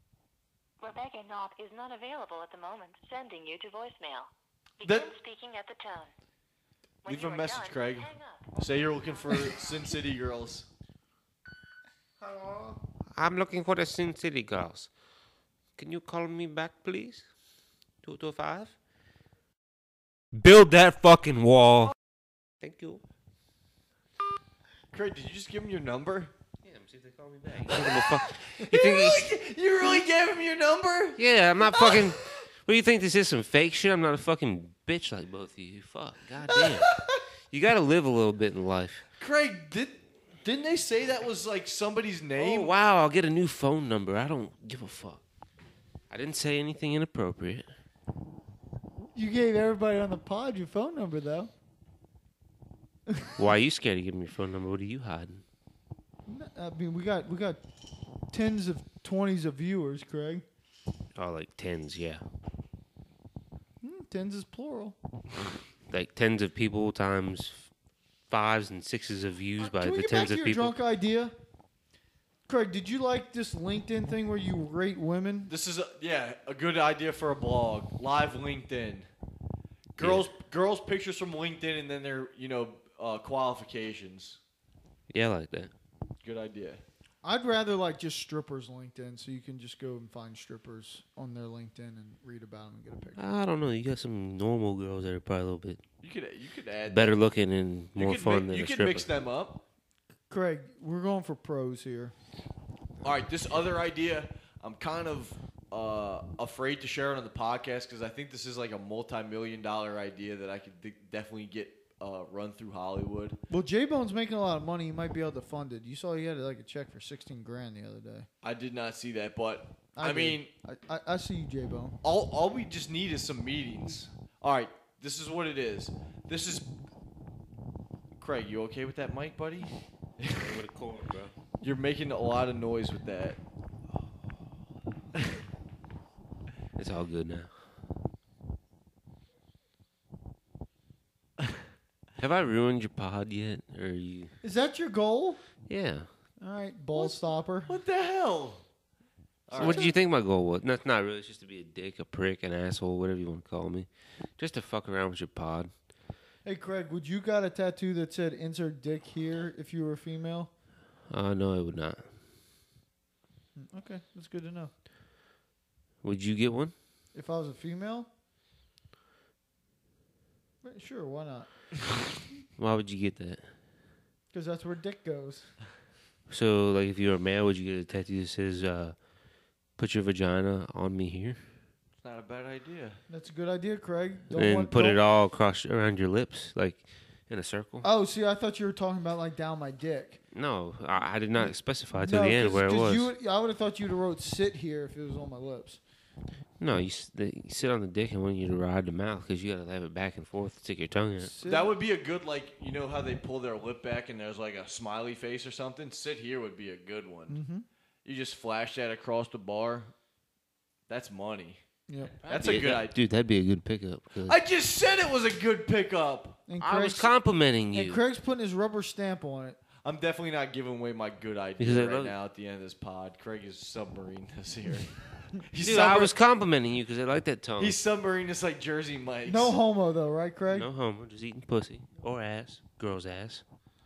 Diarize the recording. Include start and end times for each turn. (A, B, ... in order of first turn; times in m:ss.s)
0:00.8-0:06.1 A
0:04.8-0:05.1 B
0:07.0-0:09.9 A
0:07.1-0:10.7 B
0:13.1-0:14.9 C
0:15.8-0:17.3 C
0:18.0-0:18.7 C
0:20.3-0:21.9 C
0:22.6-0:23.0 C
0:24.9-0:26.3 B
0:26.6-0:29.3 C
0:27.7-0:31.2 B
0:31.2-0:37.0 C
0:31.7-0:32.1 B
0:36.5-0:37.2 B
0:37.5-0:39.0 C
0:39.2-0:42.7 B
0:42.4-0:45.2 C
0:46.1-0:47.7 C
0:49.0-0:51.5 D
0:53.4-0:55.4 C
0:56.3-0:57.6 D
0:58.3-1:00.4 D
1:01.2-1:02.2 C
1:03.8-1:05.0 D
1:05.9-1:07.7 C
1:08.3-1:10.7 C
1:09.6-1:11.3 D
1:12.5-1:15.5 D
1:15.5-1:19.1 B
1:20.0-1:24.4 B
1:20.0-1:20.3 C
1:25.1-1:25.7 C
1:26.2-1:26.8 B
1:27.2-1:33.2 D
1:33.2-1:35.8 C
1:36.0-1:37.1 B
1:36.9-1:39.1 C
1:38.0-1:39.6 B
1:40.3-1:42.1 D
1:43.0-1:53.4 B
1:53.5-1:58.3 D
1:58.4-2:00.5 B
2:00.0-2:02.0 D
2:02.0-2:06.8 B
2:08.2-2:10.6 B
2:10.3-2:11.3 C
2:11.6-2:13.4 B
2:16.8-2:17.5 C
2:22.2-2:24.3 C
2:24.4-2:25.4 D
2:25.7-2:26.1 C
2:26.4-2:27.8 D
2:27.0-2:28.6 B
2:29.5-2:29.9 B
2:29.5-2:29.9 D
2:29.6-2:33.9 C
2:34.4-2:35.7 C
2:36.4-2:40.5 D
2:41.1-2:42.1 C
2:43.6-2:44.7 D
2:46.0-2:46.7 C
2:47.1-2:48.1 D
2:50.6-2:51.5 D
2:52.6-2:53.4 C
2:54.3-2:55.5 D
2:56.3-2:59.0 C
2:59.8-3:01.4 C
3:02.0-3:03.0 B
3:03.1-3:05.0 D
3:04.3-3:07.9 C
3:07.8-3:10.2 D
3:10.3-3:13.1 C
3:11.4-3:15.8 D
3:16.6-3:21.3 C
3:21.2-3:21.7 D
3:21.4-3:27.4 B
3:27.3-3:27.7 D
3:28.0-3:29.9 B
3:30.9-3:31.6 B
3:31.9-3:32.1 D
3:32.2-3:34.4 C
3:32.2-3:33.0 B
3:34.2-3:36.4 B
3:36.5-3:37.1 D
3:36.6-3:38.0 C
3:37.7-3:39.6 D
3:39.8-3:44.9 B
3:41.6-3:42.1 C
3:45.4-3:46.1 B
3:45.6-3:47.8 C
3:47.6-3:49.5 B
3:49.3-3:50.7 D
3:50.5-3:53.4 C